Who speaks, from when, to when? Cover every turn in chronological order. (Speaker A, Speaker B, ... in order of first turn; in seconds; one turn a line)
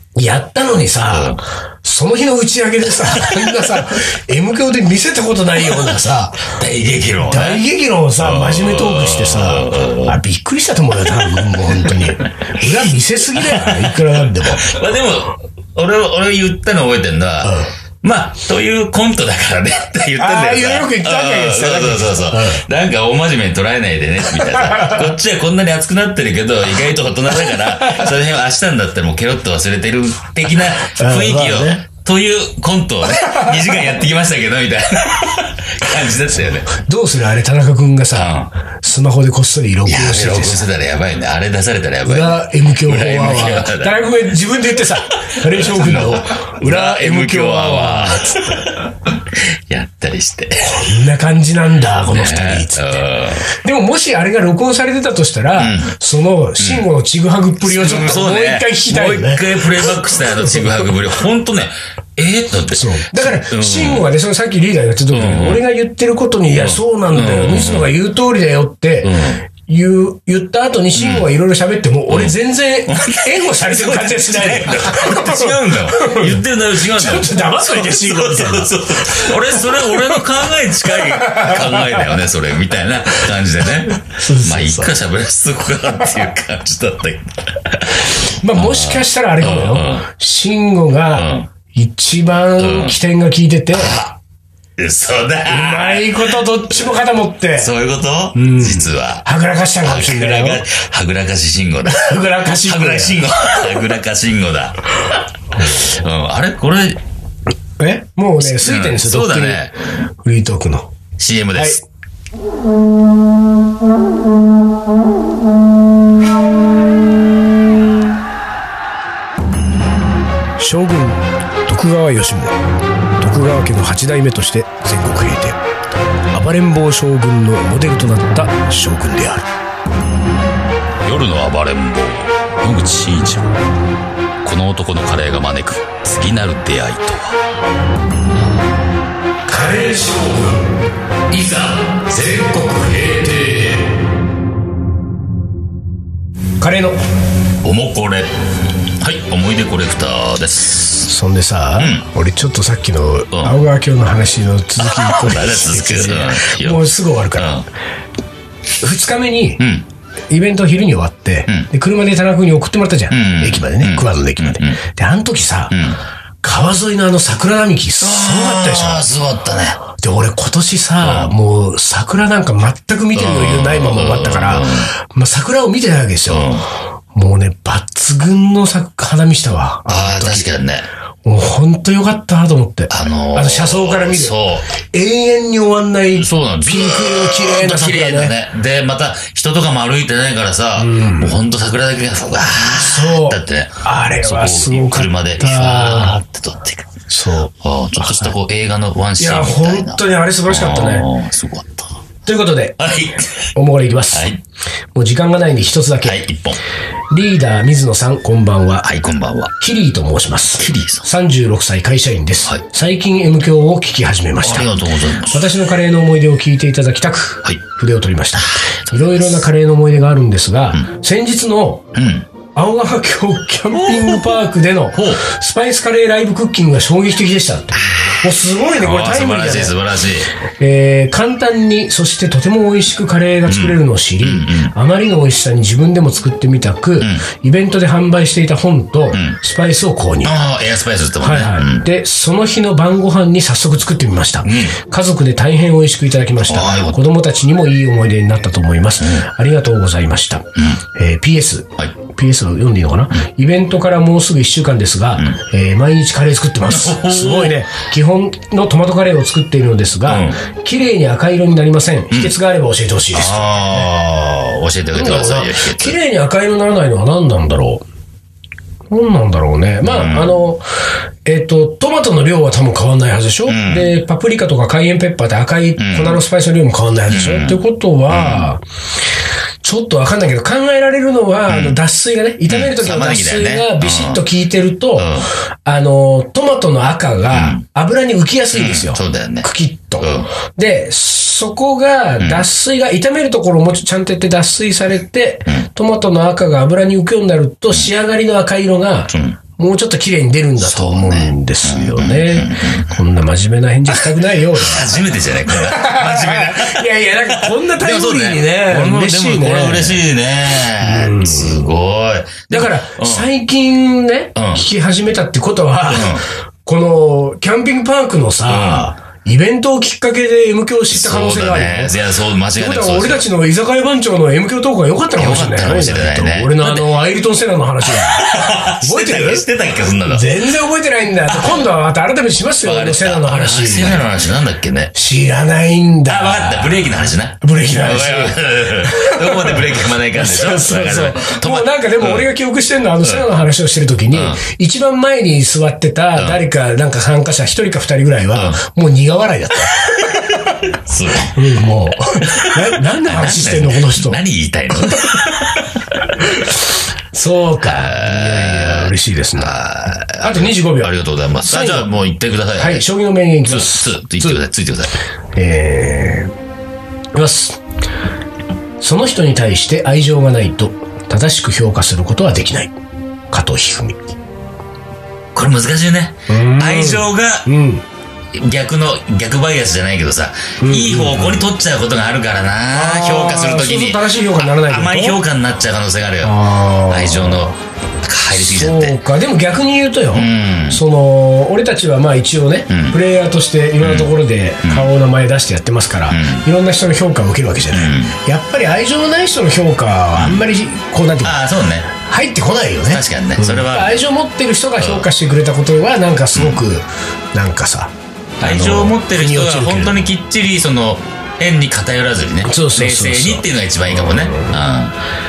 Speaker A: 0.1-6.6
Speaker B: 1.1-1.4
Speaker B: 3.0-3.7
Speaker B: 6.5-7.6
Speaker A: 7.2-14.7
Speaker B: 8.2-10.2
Speaker B: 11.1-12.8
Speaker B: 13.3-36.7
Speaker A: 17.4-17.7
Speaker A: 20.2-22.6
Speaker A: 24.4-25.1
Speaker A: 27.8-28.1
Speaker A: 30.8-31.8
Speaker A: 36.3-40.6
Speaker B: 38.1-38.5
Speaker B: 39.8-44.1
Speaker A: 42.0-48.7
Speaker B: 45.4-50.9
Speaker A: 50.7-61.0
Speaker B: 52.0-53.5
Speaker B: 55.5-56.0
Speaker B: 56.6-56.9
Speaker B: 57.6-64.1
Speaker A: 62.7-80.2
Speaker B: 65.1-65.6
Speaker B: 66.6-67.9
Speaker B: 69.0-69.4
Speaker B: 70.9-71.3
Speaker B: 72.1-72.3
Speaker B: 72.9-90.0
Speaker A: 80.8-82.1
Speaker A: 83.9-84.9
Speaker A: 88.3-94.0
Speaker B: 91.1-91.5
Speaker B: 92.6-93.0
Speaker B: 93.7-94.2
Speaker B: 94.8-96.9
Speaker A: 95.5-97.7
Speaker B: 97.5-99.2
Speaker A: 98.3-100.6
Speaker B: 99.8-104.8
Speaker A: 101.9-103.2
Speaker A: 105.6-105.9
Speaker B: 105.6-107.0
Speaker A: 107.8-109.7
Speaker B: 108.4-109.8
Speaker A: 110.2-110.9
Speaker B: 111.2-111.8
Speaker A: 111.5-111.8
Speaker A: 120.6-122.5
Speaker A: 123.2-125.6
Speaker A: 126.3-129.5
Speaker B: 131.0-133.5
Speaker B: 134.4-137.4
Speaker A: 139.4-140.7
Speaker A: 141.3-143.8
Speaker A: 146.6-147.0
Speaker B: 147.6-148.3
Speaker B: 149.0-151.1
Speaker A: 151.0-157.6
Speaker B: 151.8-152.1
Speaker B: 153.3-153.6
Speaker B: 154.8-157.7
Speaker A: 158.8-159.6
Speaker B: 159.6-159.8
Speaker A: 160.3-165.8
Speaker B: 163.1-164.8
Speaker B: 165.7-166.0
Speaker A: 166.4-169.1
Speaker B: 168.0-169.8
Speaker A: 169.9-180.5
Speaker B: 171.0-171.3
Speaker B: 173.1-174.9
Speaker B: 176.3-176.7
Speaker B: 179.9-180.9
Speaker A: 181.2-188.3
Speaker B: 182.9-184.7
Speaker B: 186.1-196.9
Speaker A: 190.8-191.4
Speaker A: 192.5-196.2
Speaker A: 197.1-198.3
Speaker B: 197.6-201.9
Speaker A: 199.2-201.1
Speaker A: 202.2-202.9
Speaker B: 202.8-203.5
Speaker A: 203.5-204.4
Speaker B: 204.1-204.4
Speaker A: 204.9-206.2
Speaker B: 206.0-206.6
Speaker A: 207.1-208.9
Speaker B: 208.8-209.5
Speaker A: 209.6-221.9
Speaker B: 210.6-211.1
Speaker B: 214.4-215.5
Speaker B: 218.4-219.4
Speaker B: 221.9-222.3
Speaker A: 222.5-229.8
Speaker B: 223.7-224.4
Speaker B: 224.9-225.2
Speaker B: 228.7-230.3
Speaker A: 230.6-240.3
Speaker B: 233.4-234.7
Speaker B: 239.1-239.4
Speaker B: 240.2-241.9
Speaker A: 241.2-263.9
Speaker B: 244.4-244.8
Speaker B: 246.4-247.0
Speaker B: 249.0-249.2
Speaker B: 256.7-257.6
Speaker B: 260.1-260.4
Speaker B: 263.1-266.0
Speaker A: 264.9-267.8
Speaker A: 268.9-270.6
Speaker B: 269.8-270.4
Speaker A: 271.2-278.6
Speaker B: 273.4-273.9
Speaker B: 275.8-276.2
Speaker B: 277.1-278.5
Speaker A: 279.6-310.0
Speaker B: 281.5-281.8
Speaker B: 282.5-284.2
Speaker B: 284.9-285.3
Speaker B: 287.3-287.6
Speaker B: 288.5-289.5
Speaker B: 290.0-290.3
Speaker B: 292.2-292.4
Speaker B: 299.1-299.4
Speaker B: 300.6-303.0
Speaker B: 303.9-313.3
Speaker A: 310.8-311.7
Speaker A: 312.5-322.0
Speaker B: 314.4-314.6
Speaker B: 315.9-316.2
Speaker B: 318.5-318.9
Speaker B: 320.9-323.2
Speaker A: 322.6-329.5
Speaker B: 325.1-326.9
Speaker B: 327.8-330.4
Speaker A: 330.0-334.1
Speaker B: 331.3-331.7
Speaker B: 332.6-334.9
Speaker A: 334.9-349.7
Speaker B: 336.1-342.3
Speaker B: 344.1-344.4
Speaker B: 346.1-346.4
Speaker B: 348.3-348.6
Speaker B: 349.9-351.5
Speaker A: 351.3-354.2
Speaker B: 352.2-356.2
Speaker A: 354.7-355.3
Speaker A: 356.2-359.5
Speaker B: 357.6-362.8
Speaker A: 360.2-361.9
Speaker A: 362.6-364.4
Speaker B: 363.5-364.9
Speaker A: 365.3-366.3
Speaker A: 367.1-367.6
Speaker A: 368.8-372.7
Speaker A: 373.3-374.1
Speaker B: 375.3-377.5
Speaker A: 376.3-377.8
Speaker B: 378.3-389.0
Speaker A: 380.6-381.5
Speaker A: 382.7-385.2
Speaker A: 386.2-387.6
Speaker A: 388.3-401.4
Speaker B: 390.1-390.8
Speaker B: 392.7-393.0
Speaker B: 393.8-394.1
Speaker B: 394.6-394.9
Speaker B: 396.1-396.4
Speaker B: 397.7-398.1
Speaker B: 400.1-400.5
Speaker B: 401.2-401.9
Speaker A: 401.9-410.0
Speaker B: 402.9-404.0
Speaker B: 404.8-405.1
Speaker B: 406.3-406.6
Speaker B: 408.4-414.9
Speaker A: 412.4-414.5